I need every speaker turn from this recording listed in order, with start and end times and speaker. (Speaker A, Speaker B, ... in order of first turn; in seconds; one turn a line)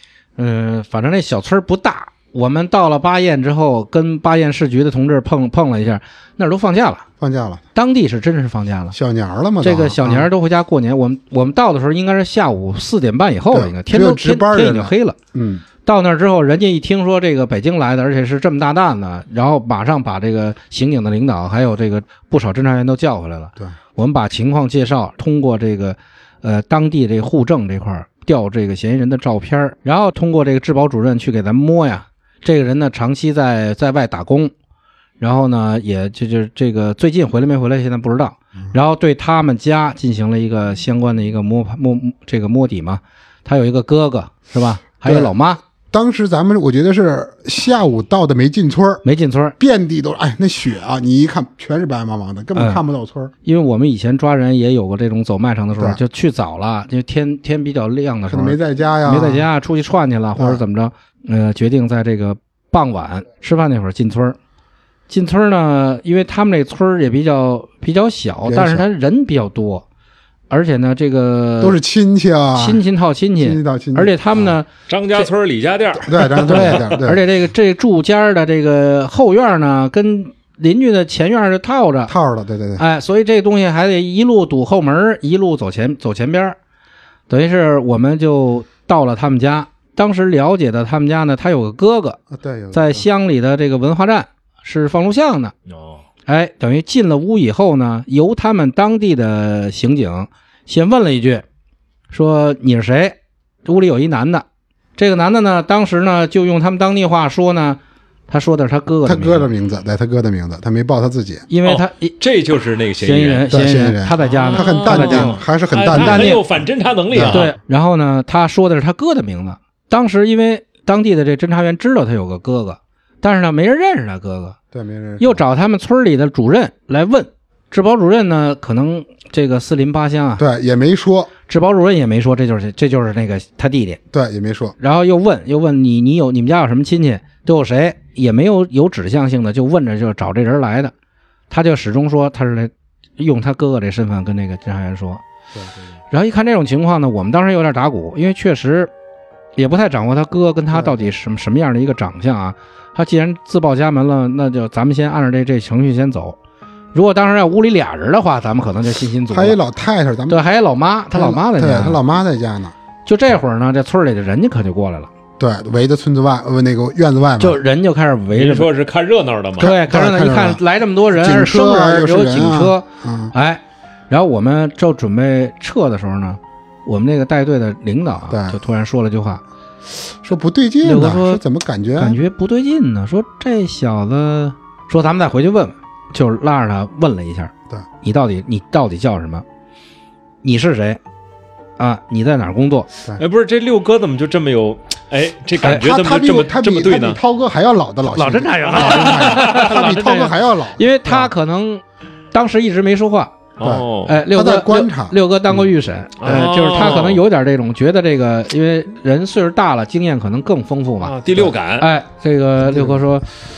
Speaker A: 0.4-7.1
Speaker B: 7.2-7.6
Speaker A: 7.8-9.0
Speaker B: 8.9-10.3
Speaker A: 9.6-15.2
Speaker B: 13.5-15.6
Speaker A: 15.8-34.5
Speaker A: 35.2-45.6
Speaker B: 45.0-45.3
Speaker B: 45.9-49.0
Speaker A: 49.0-49.5
Speaker B: 49.6-53.3
Speaker A: 52.5-52.8
Speaker A: 53.5-64.4
Speaker B: 58.3-59.5
Speaker B: 60.4-60.6
Speaker A: 65.1-69.9
Speaker B: 68.5-68.9
Speaker A: 70.5-71.8
Speaker B: 71.6-72.8
Speaker A: 72.5-75.3
Speaker B: 73.4-74.5
Speaker C: 74.9-76.7
Speaker B: 76.0-77.2
Speaker A: 76.4-82.1
Speaker B: 82.1-82.8
Speaker A: 82.8-86.6
Speaker A: 87.3-92.2
Speaker B: 92.3-93.0
Speaker A: 92.7-95.5
Speaker C: 95.7-96.0
Speaker A: 96.3-101.5
Speaker A: 102.1-104.5
Speaker A: 105.0-109.5
Speaker B: 109.0-111.5
Speaker A: 111.5-112.2
Speaker C: 111.7-113.5
Speaker A: 113.0-116.4
Speaker B: 113.5-116.5
Speaker C: 114.2-117.5
Speaker B: 117.1-117.4
Speaker A: 117.3-124.6
Speaker B: 124.7-125.4
Speaker A: 125.2-130.4
Speaker B: 130.4-131.3
Speaker A: 131.5-134.0
Speaker B: 134.1-134.8
Speaker A: 134.8-140.9
Speaker A: 141.5-145.2
Speaker B: 145.5-145.9
Speaker A: 146.1-148.9
Speaker A: 149.6-156.4
Speaker B: 150.7-151.1
Speaker A: 156.9-159.6
Speaker B: 159.3-160.4
Speaker A: 160.3-162.0
Speaker B: 161.1-162.7
Speaker A: 163.1-165.1
Speaker B: 165.4-167.6
Speaker A: 167.4-168.7
Speaker C: 168.3-169.8
Speaker B: 169.6-170.6
Speaker A: 169.6-179.4
Speaker B: 171.1-173.3
Speaker B: 178.3-178.6
Speaker B: 180.0-182.2
Speaker A: 180.8-181.4
Speaker A: 182.0-189.4
Speaker A: 190.4-191.0
Speaker A: 191.8-192.9
Speaker C: 193.2-197.2
Speaker B: 195.6-201.3
Speaker A: 198.1-203.3
Speaker C: 198.9-199.6
Speaker C: 203.6-204.2
Speaker B: 203.6-205.7
Speaker A: 204.1-211.2
Speaker C: 206.2-207.2
Speaker B: 206.2-206.5
Speaker C: 211.0-211.9
Speaker A: 211.8-213.4
Speaker B: 212.6-213.1